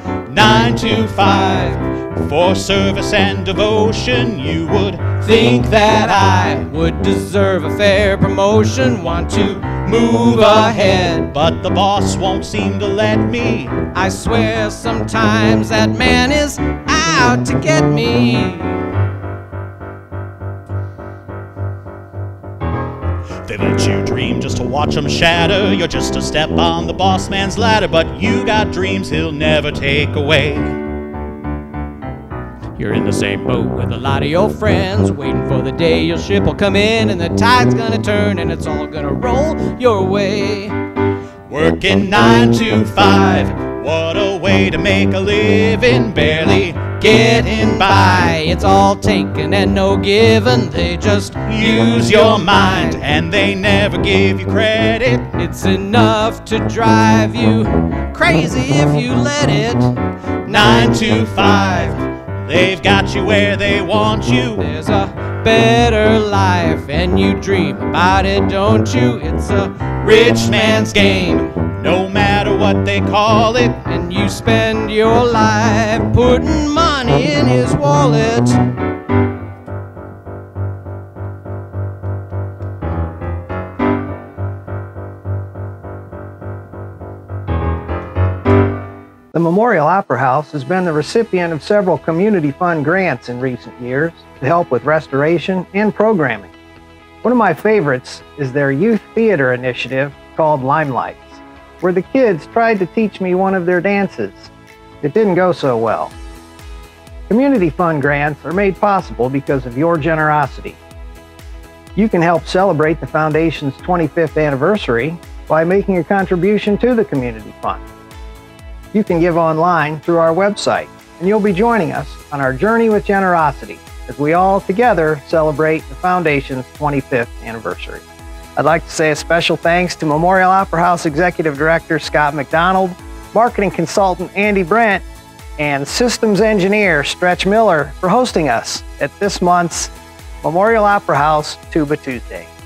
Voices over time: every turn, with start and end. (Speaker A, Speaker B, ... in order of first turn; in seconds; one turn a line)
Speaker A: 0.3-1.4
Speaker B: 1.2-1.9
Speaker A: 2.0-5.1
Speaker B: 5.1-11.3
Speaker A: 11.3-13.8
Speaker B: 13.8-18.9
Speaker A: 23.4-30.8
Speaker B: 32.8-40.7
Speaker A: 41.5-46.3
Speaker B: 46.3-53.0
Speaker A: 51.5-55.3
Speaker B: 55.3-62.1
Speaker A: 60.5-61.6
Speaker A: 62.4-64.6
Speaker B: 64.6-71.7
Speaker A: 70.0-73.8
Speaker B: 73.8-78.6
Speaker C: 89.3-96.5
Speaker C: 97.2-106.1
Speaker C: 107.3-110.8
Speaker C: 112.0-117.8
Speaker C: 118.9-128.0
Speaker C: 128.6-135.0
Speaker C: 135.6-142.5